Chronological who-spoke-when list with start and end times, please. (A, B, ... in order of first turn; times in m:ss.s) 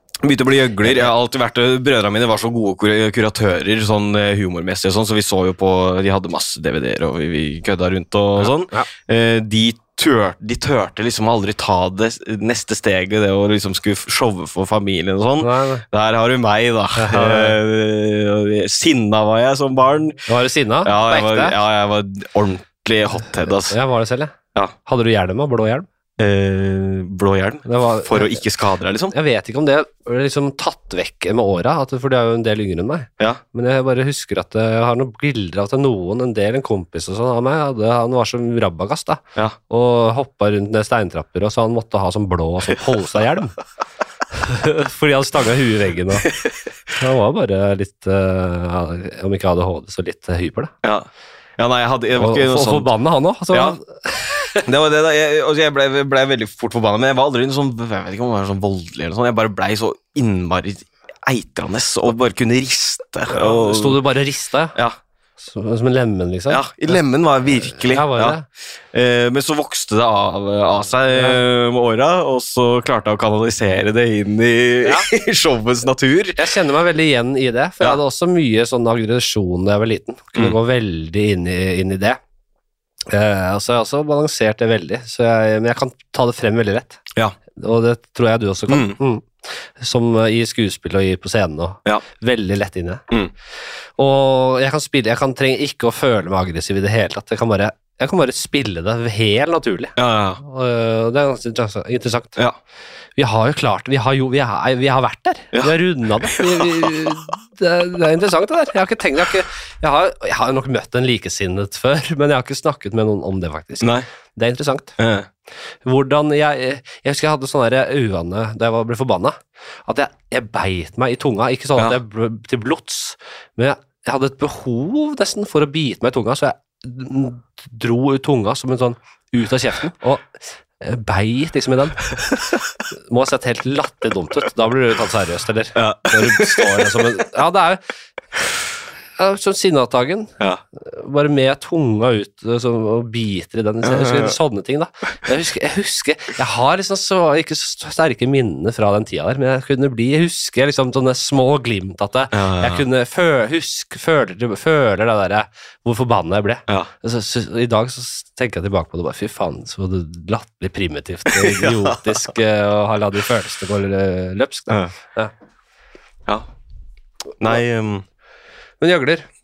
0:00.2-0:20.3 A
0:08.4-0:08.9 B
0:15.4-0:15.8 B
0:17.0-0:17.6 B
0:20.3-0:21.6 B
0:20.8-0:23.8 A
0:23.6-0:24.3 B
0:24.9-0:25.9 B
0:26.2-0:29.1 A
0:27.7-0:28.4 B
0:29.1-0:43.6 B
0:44.3-0:46.3 B
0:47.0-0:50.7 B
0:50.8-0:52.9 A
0:52.2-0:54.6 B
0:53.5-0:53.8 A
0:54.6-1:04.0 A
1:03.3-1:04.8 B
1:05.4-1:07.0 B
1:06.5-1:08.4 A
1:07.6-1:08.4 B
1:08.9-1:16.4 A
1:11.1-1:11.4 B
1:14.8-1:15.1 B
1:16.4-1:22.2 B
1:23.1-1:27.0 B
1:27.6-1:33.0 B
1:28.7-1:29.0 A
1:34.0-1:42.4 B
1:40.0-1:40.4 A
1:43.2-1:55.0 B
1:46.3-1:47.2 A
1:53.8-1:54.1 A
1:55.0-1:55.3 A
1:55.8-2:12.1 B
2:12.9-2:17.8 B
2:15.8-2:17.2 A
2:19.2-2:45.3 B
2:23.8-2:24.4 A
2:32.3-2:32.8 A
2:41.3-2:42.2 A
2:47.4-2:48.0 A
2:48.8-2:49.3 B